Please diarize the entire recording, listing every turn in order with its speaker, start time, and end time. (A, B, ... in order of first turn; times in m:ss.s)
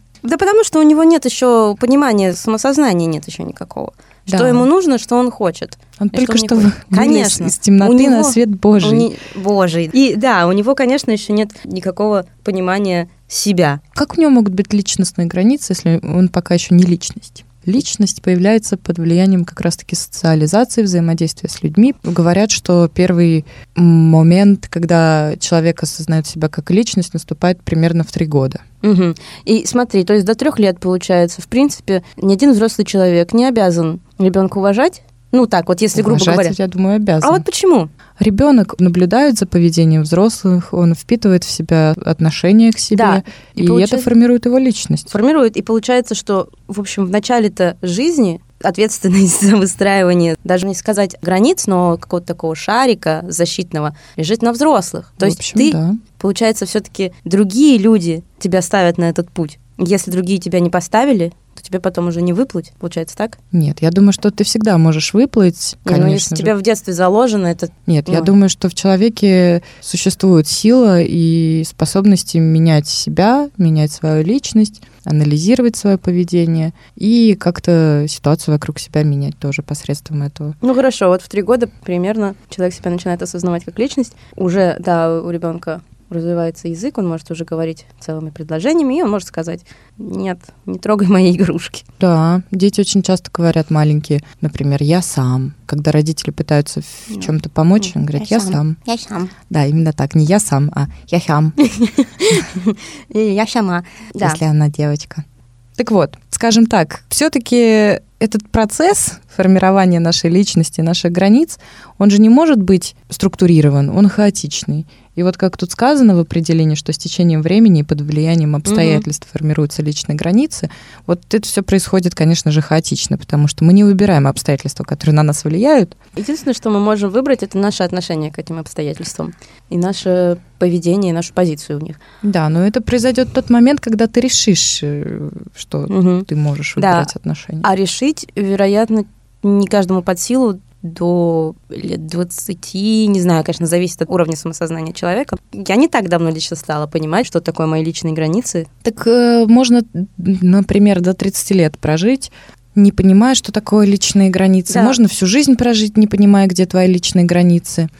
0:00.2-0:13.8 A
0:04.3-0:04.7 B
0:06.0-0:09.1 B
0:13.9-0:28.6 B
0:28.8-0:36.5 A
0:35.9-0:37.4 B
0:37.2-0:37.9 A
0:38.2-0:45.1 B
0:42.9-0:44.1 A
0:45.1-1:03.4 A
0:55.2-0:56.0 B
1:03.5-1:06.5 B
1:05.8-1:08.3 A
1:07.9-1:20.6 B
1:20.6-1:31.8 A
1:32.0-1:38.8 B
1:37.1-1:39.3 A
1:39.5-1:41.6 B
1:41.6-1:44.4 A
1:44.2-1:45.2 B
1:45.8-2:06.0 B
1:58.6-1:59.0 A
2:06.2-2:12.0 A
2:12.2-2:17.6 B
2:15.9-2:17.1 A
2:17.6-2:28.7 A
2:28.8-2:37.9 B
2:34.7-2:35.0 A